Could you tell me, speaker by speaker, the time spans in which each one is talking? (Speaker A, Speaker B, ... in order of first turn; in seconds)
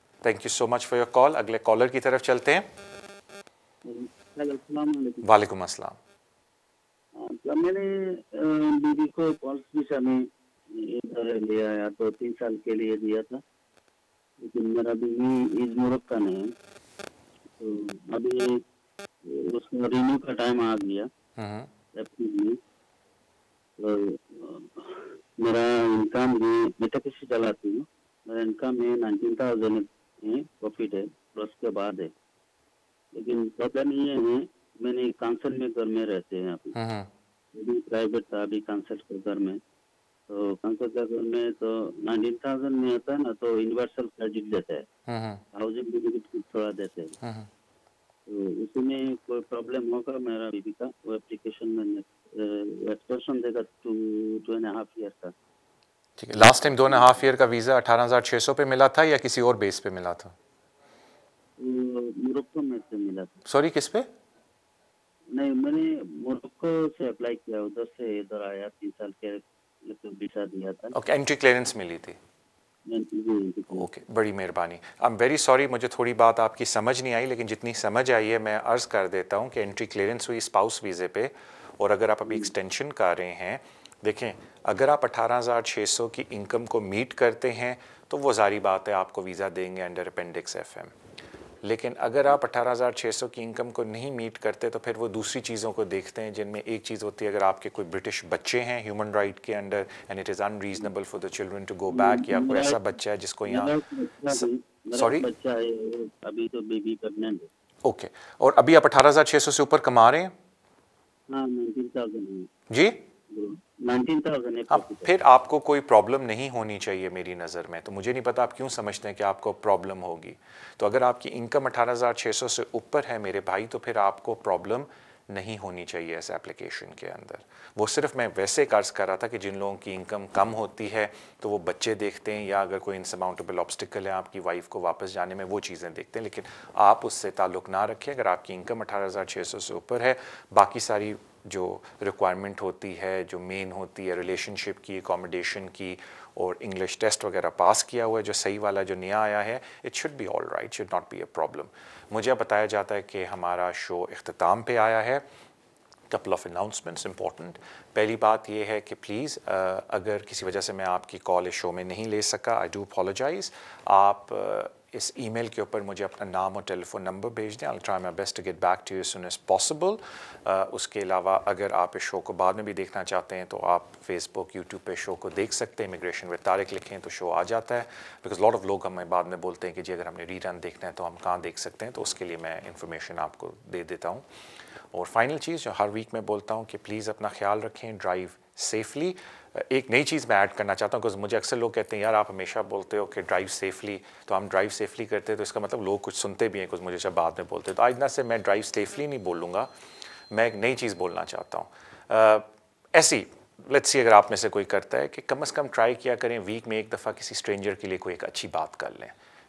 Speaker A: 0.2-2.6, 5.2-6.0, 21.4-21.7, 36.8-37.1, 45.1-45.4, 56.2-60.3, 63.5-64.1, 70.9-72.2, 73.7-90.9, 91.6-103.7, 104.3-105.3, 107.8-110.3, 112.7-113.0, 114.7-155.2, 156.1-184.2, 184.9-199.7, 200.3-209.1
Speaker B: 3.8-5.3, 7.2-13.4, 14.4-16.5, 17.6-18.6, 19.2-21.1, 21.9-22.6, 23.8-32.1, 33.1-36.8, 37.5-39.6, 40.3-44.9, 45.5-47.1, 48.3-55.3, 56.6-57.1, 61.6-63.4, 65.3-70.9, 72.8-73.9, 101.9-102.8, 103.4-107.5, 111.3-112.5, 113.3-115.1